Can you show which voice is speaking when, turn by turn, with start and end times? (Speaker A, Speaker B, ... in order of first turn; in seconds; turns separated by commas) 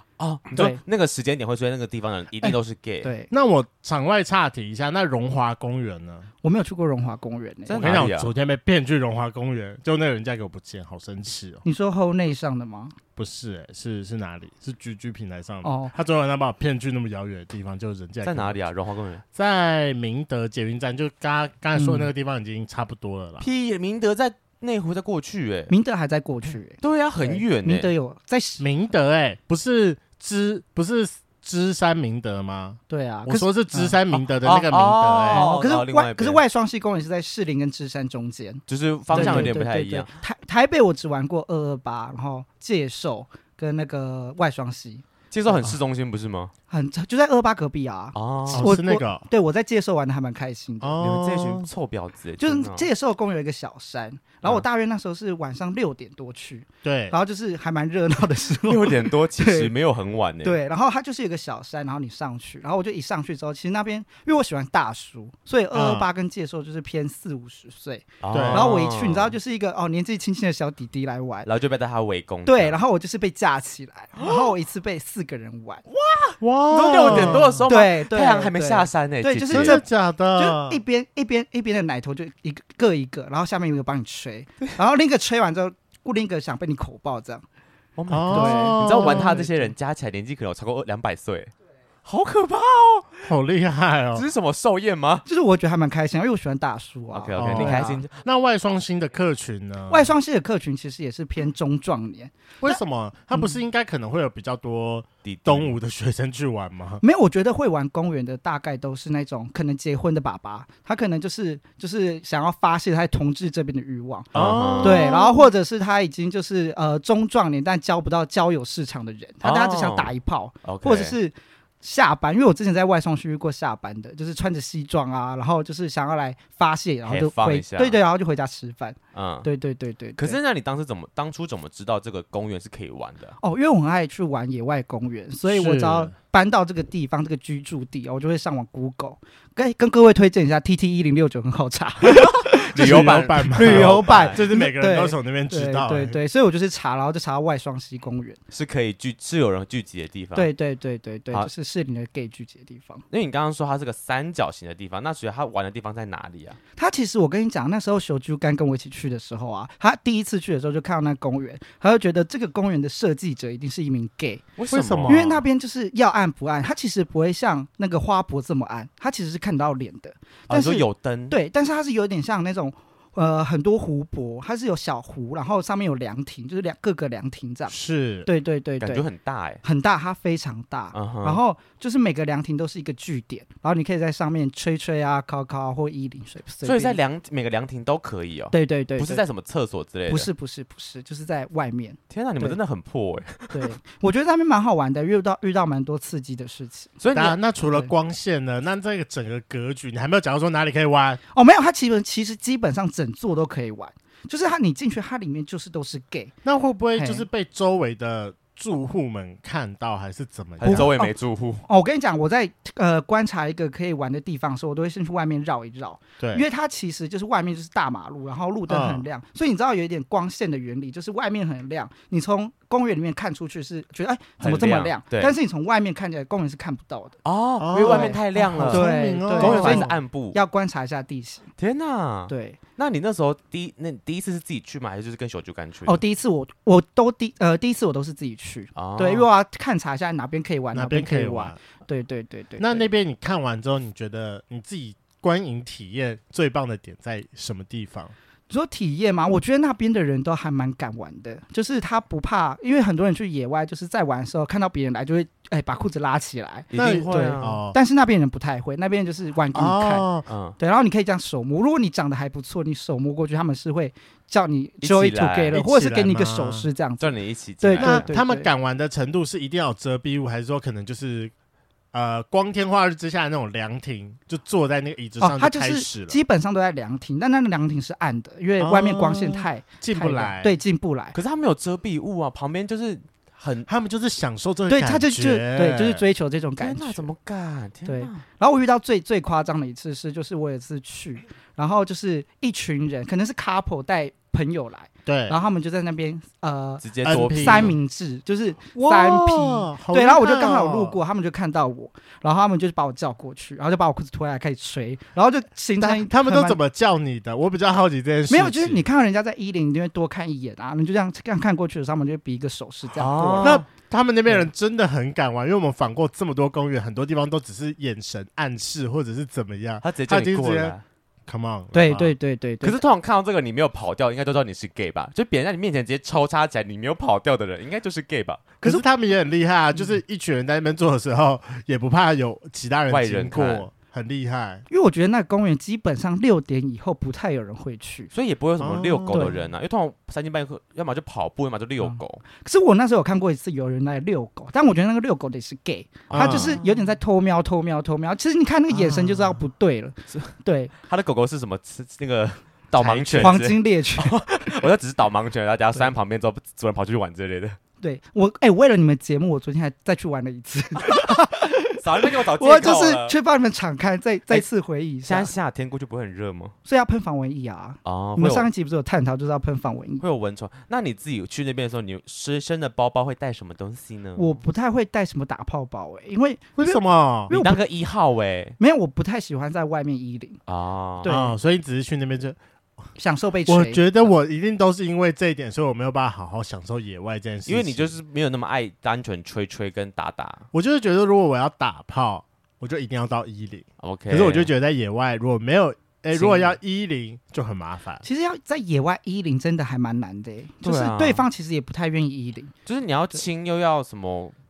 Speaker A: 0.2-3.1, Speaker B: 0.5-0.8, Speaker B: 3.0-3.3, Speaker C: 3.3-6.3, Speaker B: 6.4-7.9, Speaker A: 7.7-8.3, Speaker C: 7.8-11.6, Speaker B: 11.6-13.0, Speaker C: 13.2-18.6, Speaker B: 15.6-15.9, Speaker A: 18.2-19.2, Speaker C: 19.3-23.4, Speaker B: 21.8-22.1, Speaker A: 23.4-25.7, Speaker B: 25.7-28.6, Speaker A: 26.8-27.9, Speaker C: 28.6-35.5, Speaker B: 32.9-34.0, Speaker A: 34.1-36.4, Speaker B: 35.3-45.6, Speaker A: 38.7-40.1, Speaker C: 39.1-39.6, Speaker A: 45.3-46.5, Speaker B: 46.7-51.0, Speaker A: 48.1-48.7, Speaker C: 48.5-49.2, Speaker C: 50.8-51.6, Speaker A: 51.0-52.9, Speaker B: 52.4-59.7, Speaker C: 56.8-57.1, Speaker A: 58.6-60.6, Speaker B: 60.4-71.5, Speaker C: 65.7-66.1, Speaker A: 68.2-69.3, Speaker C: 68.3-68.7, Speaker A: 71.4-72.8, Speaker B: 72.5-75.8, Speaker A: 75.9-79.8, Speaker C: 76.4-77.6, Speaker B: 77.0-87.4, Speaker C: 79.5-80.8, Speaker A: 88.0-91.5, Speaker C: 88.1-89.4, Speaker B: 88.3-89.7, Speaker A: 92.0-93.3, Speaker C: 93.2-94.2, Speaker A: 94.1-95.2, Speaker B: 95.2-98.0, Speaker A: 97.1-98.1, Speaker C: 97.4-100.1, Speaker B: 99.9-102.8, Speaker C: 102.6-107.0, Speaker A: 105.2-105.8, Speaker B: 107.0-114.3, Speaker A: 114.3-115.2, Speaker C: 114.3-115.4, Speaker B: 114.8-130.4, Speaker A: 119.4-120.1, Speaker A: 120.6-121.2, Speaker A: 127.0-128.0, Speaker A: 129.1-129.5, Speaker A: 130.2-133.4, Speaker B: 133.4-148.4, Speaker C: 135.5-136.1, Speaker A: 142.0-144.4, Speaker C: 142.8-146.2, Speaker A: 148.5-150.5, Speaker B: 150.3-153.0, Speaker A: 153.1-156.6, Speaker B: 156.8-164.4, Speaker A: 164.6-165.3, Speaker C: 164.7-165.4, Speaker B: 165.1-179.0, Speaker A: 170.5-171.4, Speaker C: 177.7-178.3, Speaker A: 178.8-179.6, Speaker B: 179.6-187.0, Speaker A: 180.9-181.4, Speaker A: 186.6-190.3, Speaker B: 188.5-189.2, Speaker B: 190.1-192.6, Speaker A: 192.1-193.8, Speaker B: 193.5-197.0, Speaker A: 197.0-197.4, Speaker C: 197.1-201.2, Speaker B: 201.3-206.3, Speaker C: 206.4-210.9, Speaker B: 207.0-207.2, Speaker A: 210.6-211.6, Speaker B: 210.6-211.1, Speaker B: 211.7-227.2, Speaker C: 216.2-216.4, Speaker C: 218.7-219.0, Speaker A: 224.4-225.3, Speaker A: 227.2-230.4, Speaker C: 227.6-229.9, Speaker B: 227.7-231.5, Speaker A: 231.6-236.0, Speaker B: 232.3-232.6, Speaker B: 235.9-242.9, Speaker A: 238.8-239.3, Speaker C: 240.7-241.6, Speaker C: 242.6-248.1, Speaker B: 248.5-260.1, Speaker A: 256.7-257.6, Speaker C: 256.8-257.8, Speaker C: 259.5-260.2, Speaker A: 260.3-260.6, Speaker B: 260.6-268.5, Speaker A: 264.8-265.6, Speaker C: 265.5-266.7, Speaker A: 267.0-268.1, Speaker C: 267.8-271.3, Speaker C: 271.9-276.2, Speaker B: 275.2-281.1, Speaker C: 278.6-280.6, Speaker A: 281.1-283.7, Speaker C: 283.7-286.0, Speaker B: 284.7-287.1, Speaker A: 286.6-288.2, Speaker B: 287.9-306.6, Speaker C: 295.1-295.4, Speaker A: 296.8-297.8, Speaker C: 297.0-297.8, Speaker C: 298.7-301.0, Speaker C: 305.8-308.9, Speaker B: 308.3-313.6, Speaker A: 312.9-313.6, Speaker C: 313.4-320.8, Speaker A: 319.8-320.8, Speaker C: 321.3-322.1, Speaker B: 321.7-322.8, Speaker A: 322.6-328.5, Speaker C: 328.6-334.6, Speaker A: 332.9-333.7, Speaker B: 334.7-338.1, Speaker A: 338.1-342.2, Speaker C: 338.6-339.3, Speaker B: 339.1-339.5, Speaker B: 341.8-350.7, Speaker C: 346.1-346.6, Speaker A: 346.1-346.5, Speaker C: 348.7-349.4, Speaker A: 350.1-357.6, Speaker B: 352.8-354.2, Speaker C: 353.0-353.4, Speaker B: 357.8-365.3, Speaker A: 360.8-361.2, Speaker A: 361.8-363.1, Speaker A: 365.0-366.5, Speaker B: 366.6-370.0, Speaker A: 367.9-368.5, Speaker A: 370.0-374.4, Speaker B: 374.2-377.6, Speaker C: 376.6-377.3, Speaker A: 377.3-378.6, Speaker B: 378.6-380.4, Speaker A: 380.5-381.1, Speaker B: 381.0-381.4, Speaker C: 381.1-382.4, Speaker B: 383.0-383.9, Speaker C: 383.5-388.0, Speaker A: 387.5-390.5, Speaker C: 390.5-398.0, Speaker A: 393.8-394.5, Speaker A: 396.1-396.6, Speaker B: 398.0-402.5, Speaker A: 400.6-401.2, Speaker A: 402.6-404.4